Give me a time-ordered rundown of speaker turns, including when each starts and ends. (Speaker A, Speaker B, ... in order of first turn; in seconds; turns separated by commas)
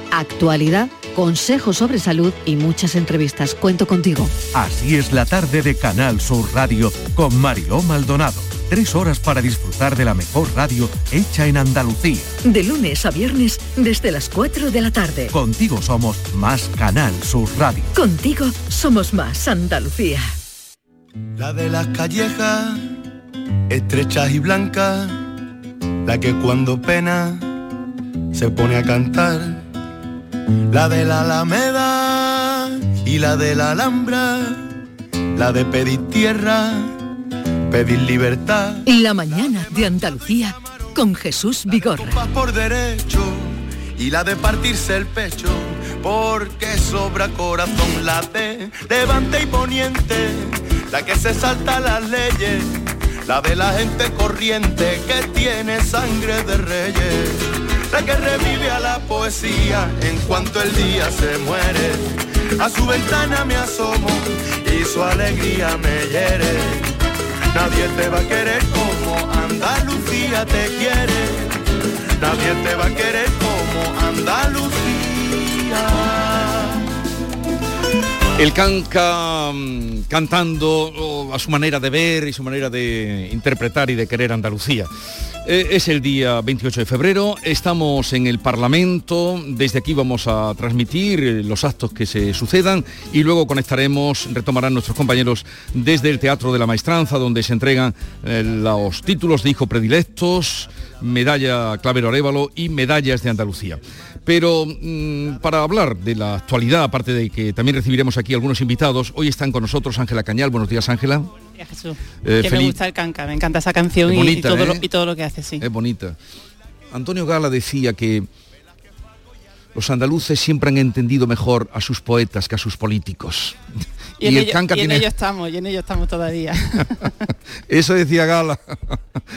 Speaker A: 4.5-12.3, Speaker B: 12.4-15.3, Speaker A: 15.3-17.9, Speaker B: 17.9-20.3, Speaker C: 21.4-22.9, Speaker C: 23.7-25.2, Speaker C: 26.0-27.5, Speaker C: 28.3-29.6, Speaker C: 30.7-34.6, Speaker C: 35.3-37.0, Speaker C: 37.7-38.8, Speaker B: 38.8-42.2, Speaker C: 41.9-52.7, Speaker C: 53.2-66.9, Speaker C: 67.5-71.6, Speaker C: 72.2-76.7, Speaker D: 78.4-84.9, Speaker D: 85.4-111.3, Speaker E: 111.6-115.6, Speaker D: 112.2-112.8, Speaker D: 114.1-114.8, Speaker D: 115.6-116.2, Speaker D: 116.9-118.3, Speaker D: 119.7-123.5, Speaker E: 124.2-127.1, Speaker D: 124.2-125.0, Speaker D: 127.7-129.0